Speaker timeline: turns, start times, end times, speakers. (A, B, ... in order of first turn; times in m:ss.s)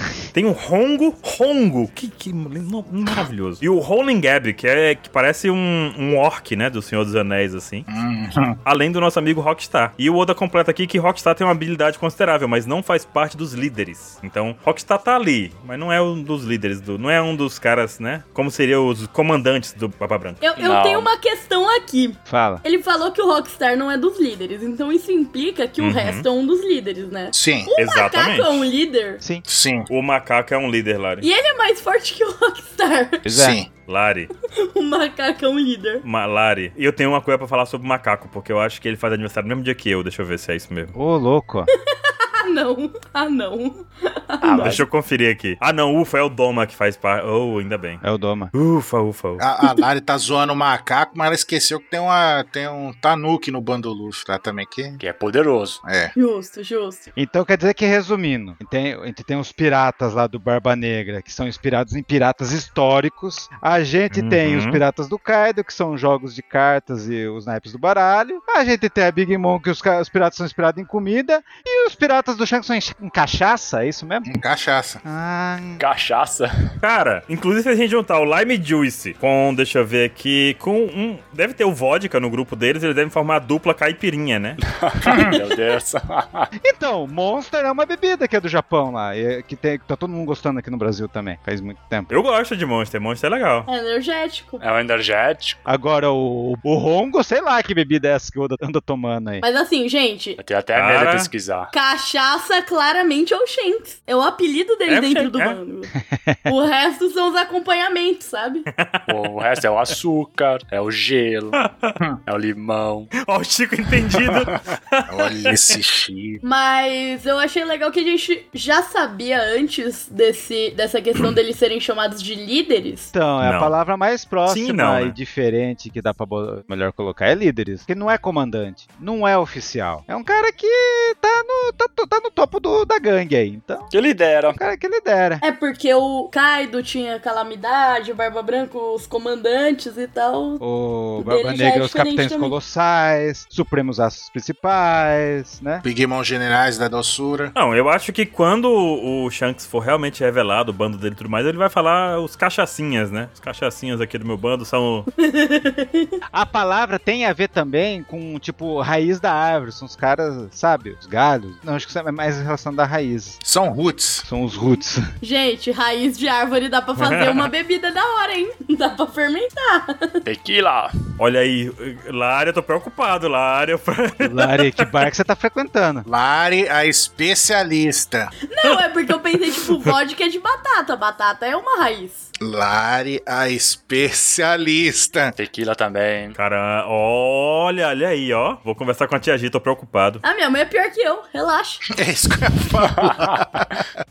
0:00.3-0:07.9 A
0:07.9-0:08.6 B
0:08.6-0:20.4 A
0:20.4-0:29.2 C
0:20.6-0:21.1 D
0:22.3-0:22.6 E
0:25.8-0:26.3 A
0:27.3-0:27.7 B
0:27.8-0:28.7 A
0:29.5-0:29.9 B
0:29.9-0:31.3 A
0:31.2-0:33.3 C
0:33.3-0:33.6 E
0:33.3-0:33.7 B
0:33.9-0:34.3 A
0:34.5-0:36.0 C
0:36.0-0:40.9 A
0:41.0-0:41.7 E
0:41.9-0:44.8 C
0:44.4-0:44.9 D
0:44.6-0:48.0 A
0:48.0-0:48.5 E
0:48.5-0:49.4 A
0:49.4-0:55.0 B
0:55.0-0:55.8 D
0:55.8-0:56.1 B
0:56.1-0:57.1 C
0:57.2-1:14.3 E
1:04.1-1:04.8 A
1:14.3-1:15.0 B
1:15.0-1:15.8 E
1:15.8-1:16.5 D
1:16.8-1:24.6 A
1:24.6-1:26.5 D
1:25.1-1:25.4 B
1:26.6-1:32.1 E
1:32.1-1:33.7 A
1:33.7-1:34.6 C
1:34.6-1:35.6 D
1:35.7-1:39.4 E
1:39.4-1:40.4 C
1:40.4-1:41.7 D
1:40.7-1:41.3 A
1:41.7-1:45.9 C
1:44.9-1:45.6 A
1:46.4-1:48.7 C
1:48.7-1:49.2 A
1:49.1-1:51.6 D
1:51.6-1:52.0 A
1:52.3-1:53.1 D
1:53.2-1:55.8 A
1:54.2-1:54.6 D
1:55.1-1:56.4 B
1:56.4-2:03.1 C
2:03.1-2:13.9 E
2:03.4-2:03.8 A
2:04.4-2:05.2 A
2:13.9-2:14.6 D
2:14.5-2:15.4 E
2:15.4-2:20.6 C
2:20.6-2:25.8 E
2:21.2-2:22.6 C
2:25.8-2:27.5 B
2:27.6-2:35.1 A
2:35.2-2:36.2 C
2:36.3-2:43.4 E
2:43.4-2:44.3 B
2:44.2-2:45.1 E
2:45.2-2:50.2 C
2:47.0-2:47.5 A
2:50.2-2:50.9 D
2:51.2-2:55.0 A
2:54.2-2:56.0 E
2:56.0-2:58.3 B
2:58.5-3:02.3 C
2:59.6-2:59.9 A
3:02.4-3:05.4 B
3:05.4-3:06.4 D
3:06.4-3:10.2 A
3:10.2-3:11.9 C
3:12.0-3:13.8 B
3:12.8-3:13.6 D